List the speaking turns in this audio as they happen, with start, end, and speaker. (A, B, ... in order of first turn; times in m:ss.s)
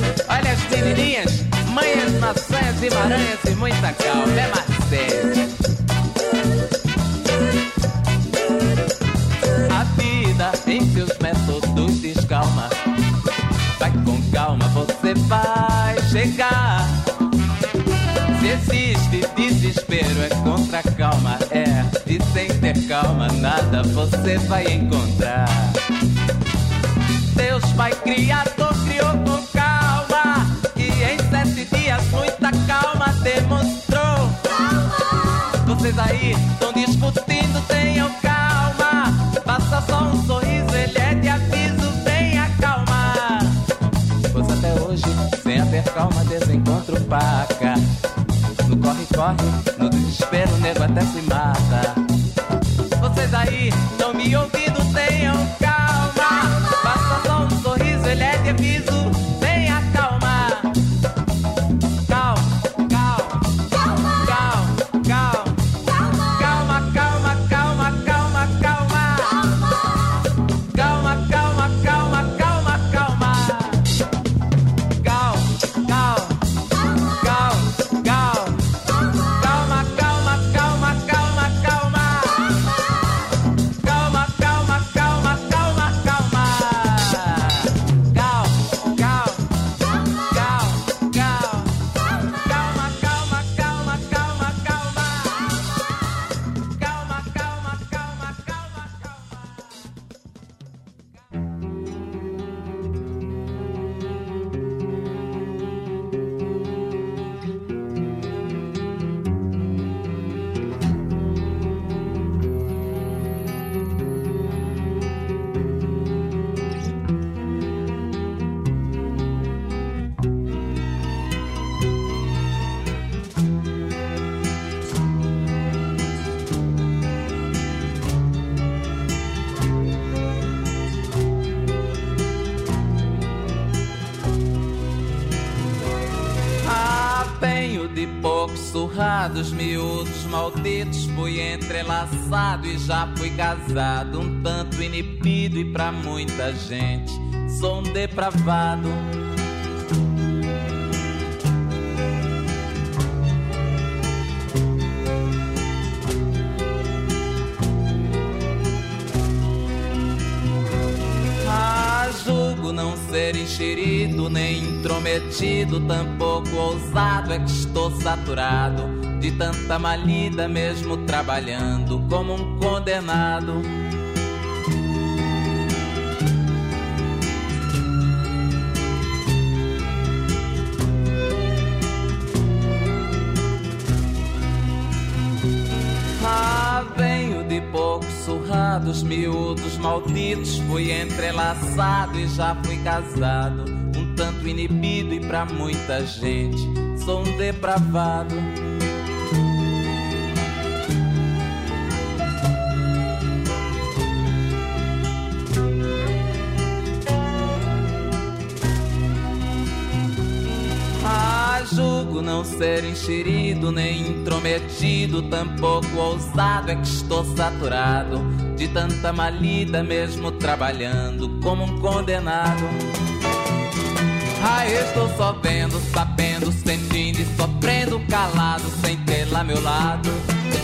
0:00.2-0:05.5 A
0:09.7-0:12.7 A
0:13.8-0:17.1 A
0:18.3-0:25.8 A
0:27.3-0:34.8 A
0:35.5-0:43.6 A
0:44.3-0:47.8 A
0:48.6-0:52.0 A
0:53.0-1:00.8 A
1:02.0-1:09.7 A
1:10.7-1:14.0 A
1:15.0-1:16.4 A
1:17.0-1:22.7 A
1:23.8-1:35.8 A
1:36.6-1:39.7 A
2:16.6-2:29.2 A
2:41.4-2:53.7 A
3:06.2-3:18.5 A
3:31.0-3:42.8 A
3:44.4-3:50.2 A